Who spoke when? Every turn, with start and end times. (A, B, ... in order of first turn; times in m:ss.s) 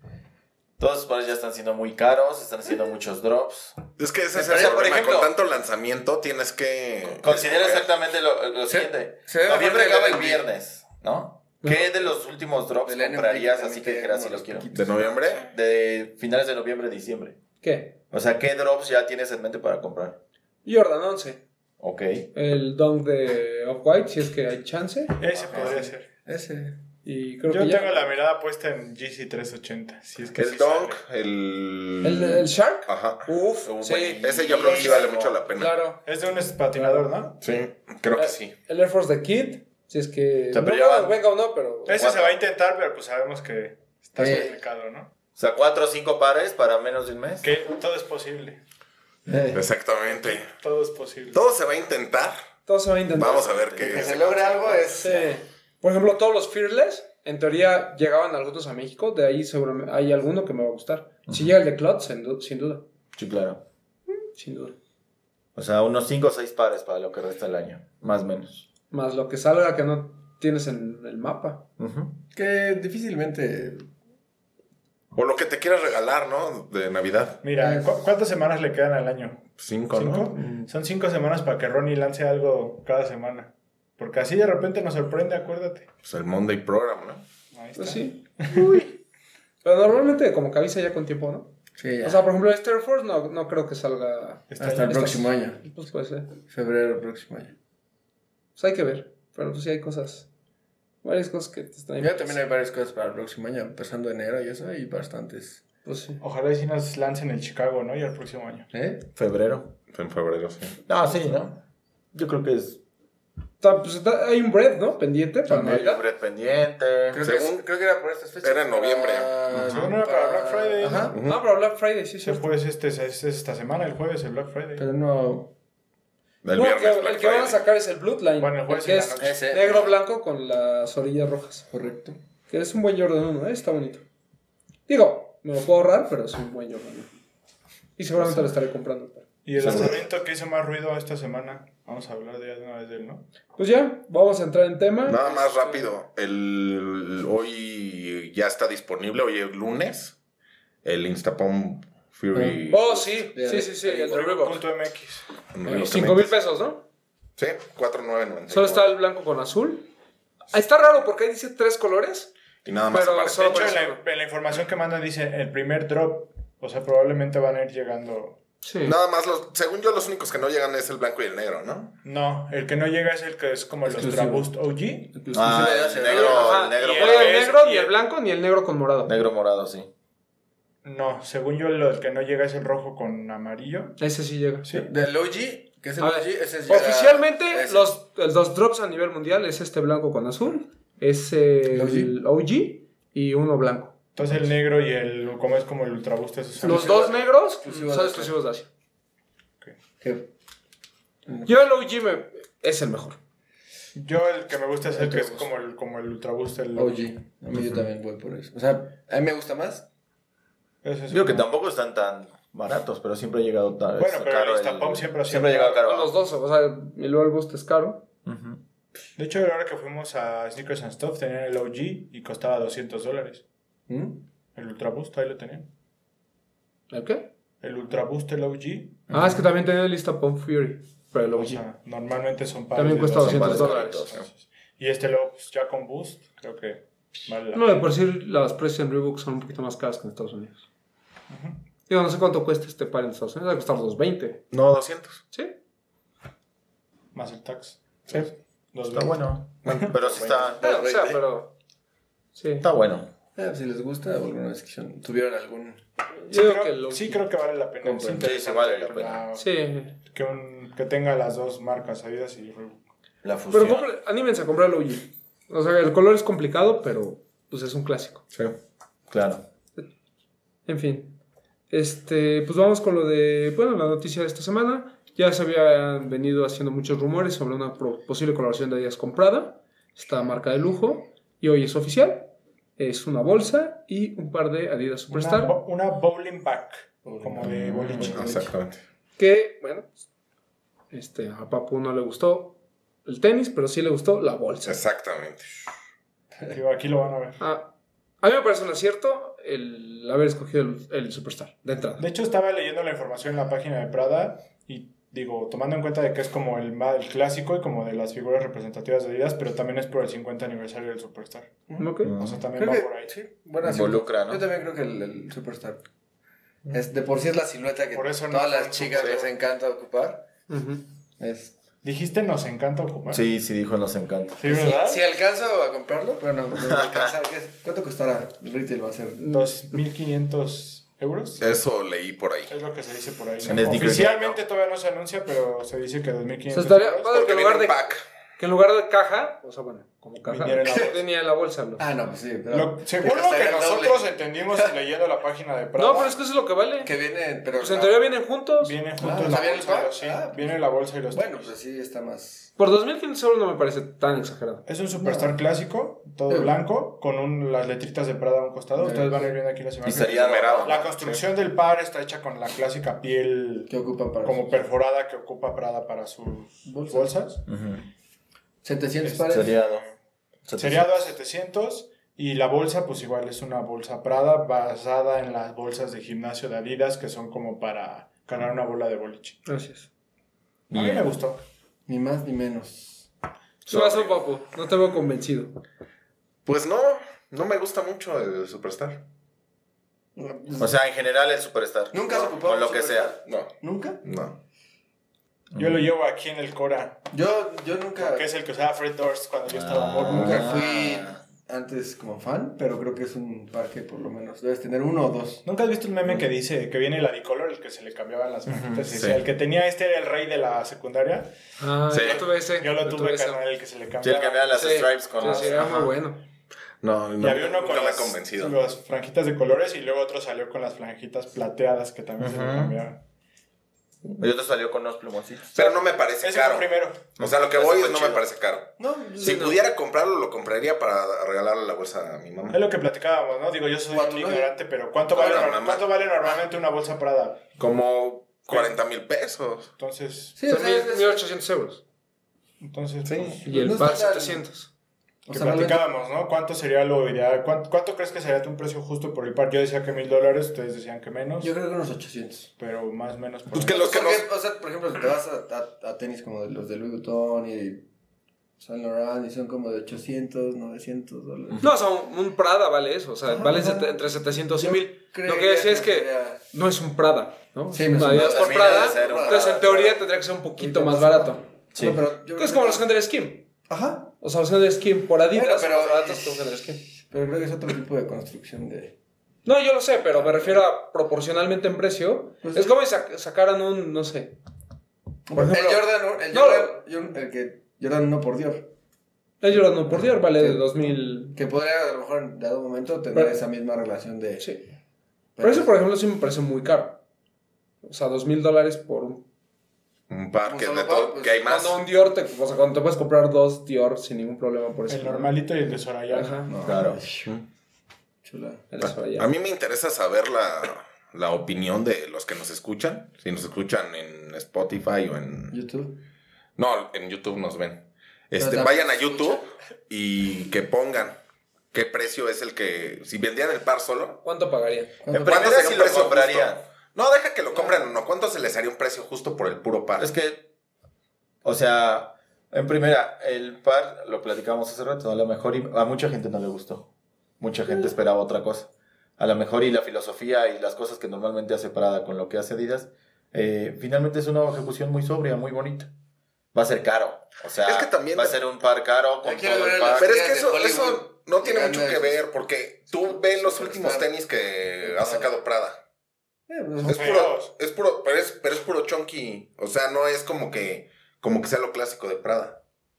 0:00.8-0:05.3 A
0:04.0-0:07.8 B
0:04.3-0:04.9 C
0:07.2-0:14.7 A
0:08.7-0:10.4 C
0:11.6-0:11.9 D
0:12.8-0:15.2 C
0:14.7-0:15.5 B
0:15.4-0:17.4 A
0:17.6-0:18.0 D
0:18.1-0:20.2 A
0:20.6-0:21.4 D
0:21.8-0:22.3 A
0:22.3-0:25.2 D
0:25.2-0:26.1 E
0:25.5-0:26.8 C
0:27.0-0:28.1 D
0:27.5-0:31.0 E
0:30.3-0:33.3 B
0:32.0-0:35.0 D
0:33.6-0:35.4 A
0:34.2-0:35.9 B
0:35.6-0:36.0 D
0:36.0-0:37.4 E
0:36.8-0:37.0 D
0:37.4-0:38.5 B
0:38.1-0:42.0 D
0:40.5-0:41.2 A
0:41.8-0:45.1 E
0:41.9-0:42.4 A
0:44.2-0:44.6 C
0:45.4-0:47.5 A
0:47.4-0:48.6 E
0:49.2-0:49.7 C
0:49.5-0:50.5 B
0:50.2-0:51.4 E
0:51.3-0:52.4 B
0:52.7-0:53.6 D
0:53.1-0:54.8 B
0:53.2-0:55.1 A
0:53.8-0:55.2 C
0:55.0-1:02.8 D
1:01.3-1:01.5 A
1:03.1-1:03.6 A
1:04.3-1:04.8 D
1:05.5-1:08.7 A
1:08.9-1:11.7 D
1:11.8-1:12.2 A
1:12.3-1:13.9 C
1:15.1-1:17.4 B
1:17.4-1:25.9 E
1:17.5-1:18.0 C
1:19.6-1:20.3 B
1:20.4-1:20.7 C
1:26.0-1:27.2 B
1:27.5-1:28.7 E
1:27.8-1:29.0 D
1:29.6-1:36.3 D
1:31.8-1:32.3 C
1:34.5-1:35.2 E
1:34.6-1:37.5 C
1:38.6-1:40.3 D
1:41.0-1:42.4 D
1:42.0-1:45.6 C
1:45.8-1:46.2 D
1:46.2-1:48.7 E
1:48.7-1:49.1 C
1:49.2-1:49.7 A
1:49.9-1:50.8 B
1:50.8-1:51.6 A
1:52.1-1:52.8 A
1:53.6-1:56.0 D
1:55.5-1:57.2 A
1:57.1-2:01.2 C
1:57.2-1:57.6 B
1:58.4-1:59.3 B
1:59.5-1:59.9 A
1:59.6-2:01.2 E
2:00.9-2:02.5 D
2:01.1-2:01.4 B
2:02.2-2:04.8 E
2:04.8-2:05.5 C
2:06.4-2:07.6 B
2:06.5-2:11.6 D
2:08.4-2:09.4 E
2:09.2-2:10.0 C
2:11.7-2:12.2 C
2:12.5-2:14.0 D
2:14.9-2:17.1 D
2:18.0-2:19.2 D
2:18.2-2:18.5 C
2:19.4-2:23.2 E
2:19.6-2:19.9 A
2:19.6-2:20.0 B
2:23.6-2:25.8 D
2:25.0-2:30.1 B
2:30.8-2:33.0 B
2:32.3-2:32.7 C
2:32.7-2:34.6 D
2:33.2-2:34.3 C
2:34.1-2:35.2 E
2:35.5-2:36.4 B
2:35.6-2:36.8 D
2:37.4-2:38.9 B
2:38.5-2:39.9 D
2:40.5-2:42.3 D
2:42.6-2:43.8 B
2:42.9-2:44.0 D
2:43.4-2:48.4 E
2:48.6-2:49.0 D
2:48.8-2:52.0 B
2:52.0-2:55.2 E
2:53.8-2:54.5 C
2:55.1-2:56.6 C
2:55.3-2:57.4 A
2:56.0-2:59.1 D
2:56.3-2:57.9 E
2:59.0-2:59.9 A
3:00.8-3:04.0 E
3:04.0-3:04.7 D
3:04.7-3:07.9 C
3:06.0-3:13.9 D
3:11.7-3:12.1 C
3:14.2-3:17.1 E
3:16.6-3:18.3 C
3:16.6-3:18.7 D
3:20.0-3:20.3 C
3:21.3-3:21.5 C
3:21.4-3:23.2 D
3:23.9-3:27.1 E
3:24.9-3:25.5 C
3:26.7-3:29.9 C
3:30.8-3:31.5 E
3:31.1-3:36.1 A
3:34.0-3:35.8 E
3:35.8-3:38.1 D
3:38.2-3:38.6 A
3:39.2-3:43.4 E
3:43.9-3:44.2 C
3:44.5-3:45.7 E
3:46.9-3:47.3 D
3:47.6-3:49.1 E
3:49.1-3:49.4 A
3:49.1-3:51.6 D
3:51.4-3:57.8 E
3:52.7-3:54.1 D
3:53.1-3:54.3 A
3:57.5-4:00.6 D
4:01.3-4:01.6 E
4:01.9-4:04.4 D
4:04.5-4:05.2 B
4:07.1-4:09.9 E
4:08.9-4:10.6 A
4:09.9-4:11.2 C
4:10.6-4:11.5 D
4:12.3-4:12.7 D
4:12.6-4:13.1 A
4:13.4-4:15.8 C
4:16.2-4:17.2 D
4:16.3-4:22.8 E
4:17.8-4:18.3 C
4:18.2-4:19.2 A
4:19.4-4:20.0 D
4:23.2-4:23.9 A
4:23.5-4:28.2 D
4:29.1-4:29.4 A
4:30.6-4:31.2 D
4:31.7-4:45.6 D
4:45.1-4:48.5 E
4:47.0-4:48.4 C
4:47.4-4:48.8 B
4:49.2-4:50.0 D
4:50.9-4:54.8 D
4:54.6-4:55.5 B
4:56.5-4:57.4 E
4:57.4-5:02.0 D
5:02.0-5:13.1 E
5:11.8-5:12.1 D
5:12.0-5:12.5 A
5:12.6-5:15.8 C
5:13.6-5:14.4 A
5:16.7-5:20.2 C
5:17.9-5:19.3 E
5:20.5-5:20.8 D
5:21.2-5:21.5 C
5:21.8-5:23.2 E
5:23.1-5:24.4 A
5:24.4-5:25.0 E
5:24.4-5:29.2 C
5:26.6-5:27.1 A
5:29.2-5:29.6 D
5:29.3-5:31.6 E
5:31.4-5:32.5 B
5:32.5-5:37.2 E
5:33.4-5:34.3 A
5:33.5-5:34.3 B
5:36.5-5:41.9 D
5:37.1-5:38.0 B
5:40.3-5:41.0 E
5:40.6-5:41.0 C
5:41.8-5:44.7 C
5:42.5-5:46.1 E
5:45.8-5:46.9 D
5:46.8-5:48.0 C
5:47.6-5:48.8 D
5:48.6-5:51.5 E
5:49.0-5:52.5 C
5:52.6-5:54.6 D
5:54.6-6:03.7 E
5:55.0-5:55.4 C
5:56.3-5:56.6 C
5:58.8-5:59.4 C
5:59.8-6:00.8 A
6:00.0-6:01.2 B
6:03.7-6:04.7 C
6:04.2-6:07.4 E
6:06.6-6:07.1 C
6:07.5-6:07.8 A
6:08.6-6:09.6 C
6:09.0-6:09.9 E
6:09.3-6:09.8 A
6:10.4-6:11.1 A
6:10.6-6:19.4 E
6:19.4-6:19.9 D
6:20.7-6:21.2 A
6:20.7-6:21.4 E
6:21.9-6:23.1 C
6:23.6-6:25.6 D
6:23.7-6:24.2 B
6:26.4-6:29.0 B
6:30.2-6:30.7 C
6:30.6-6:33.1 A
6:31.9-6:34.0 C
6:33.2-6:34.4 B
6:35.5-6:35.9 A
6:35.6-6:37.1 E
6:37.1-6:38.3 C
6:38.0-6:40.6 E
6:39.5-6:41.2 A
6:40.0-6:45.4 C
6:45.4-6:51.3 E
6:48.8-6:49.2 B
6:51.6-6:53.4 D
6:51.9-6:52.3 B
6:52.0-6:55.7 E
6:54.0-6:55.9 A
6:54.5-6:56.2 D
6:56.8-6:58.6 B
6:57.2-7:03.0 E
7:02.2-7:02.8 A
7:04.1-7:05.6 A
7:05.5-7:12.6 B
7:05.6-7:07.2 E
7:07.2-7:08.0 A
7:07.8-7:08.2 E
7:08.8-7:09.5 C
7:09.2-7:09.6 D
7:12.5-7:17.4 E
7:13.9-7:14.5 C
7:15.1-7:15.9 B
7:15.2-7:15.6 C
7:17.6-7:19.7 B
7:19.8-7:20.4 E
7:20.4-7:21.2 C
7:20.4-7:21.8 D
7:22.6-7:23.8 E
7:23.0-7:23.4 B
7:23.4-7:24.4 C
7:23.4-7:24.7 D
7:25.2-7:25.9 C
7:25.3-7:31.5 E
7:31.4-7:32.5 C
7:32.6-7:34.0 E
7:33.5-7:34.3 B
7:33.6-7:37.9 C
7:38.6-7:41.6 C
7:41.6-7:51.4 D
7:43.3-7:44.0 C
7:44.6-7:46.4 C
7:47.7-7:50.0 C
7:48.0-7:49.8 A
7:50.6-7:52.8 C
7:51.7-7:52.0 A
7:52.3-7:53.5 D
7:53.7-7:54.1 C
7:54.2-7:56.8 D
7:55.3-7:58.9 C
7:59.4-8:04.4 D
8:02.4-8:02.7 C
8:05.3-8:08.7 C
8:05.3-8:06.8 D
8:09.4-8:11.4 D
8:10.3-8:14.5 C
8:14.4-8:14.6 D
8:15.4-8:15.8 C
8:15.4-8:17.0 D
8:17.8-8:19.2 D
8:20.1-8:21.8 B
8:20.4-8:21.4 C
8:21.4-8:25.4 D
8:24.9-8:26.5 E
8:26.1-8:26.5 D
8:26.5-8:27.3 C
8:26.6-8:27.0 A
8:28.2-8:28.7 C
8:28.7-8:29.3 D
8:28.8-8:35.5 B
8:35.5-8:36.0 C
8:36.6-8:41.2 B
8:38.4-8:39.5 C
8:41.7-8:44.2 B
8:44.2-8:44.9 D
8:45.0-8:45.8 C
8:45.1-8:46.6 A
8:45.2-8:50.1 B
8:47.5-8:47.9 C
8:50.0-8:50.4 A
8:51.4-8:56.9 A
8:57.4-9:05.9 A
9:06.5-9:10.2 A
9:07.6-9:08.4 B
9:09.2-9:12.2 C
9:09.8-9:15.8 B
9:12.9-9:14.1 C
9:14.8-9:15.3 C
9:16.5-9:17.2 C
9:16.8-9:22.6 B
9:16.9-9:17.5 E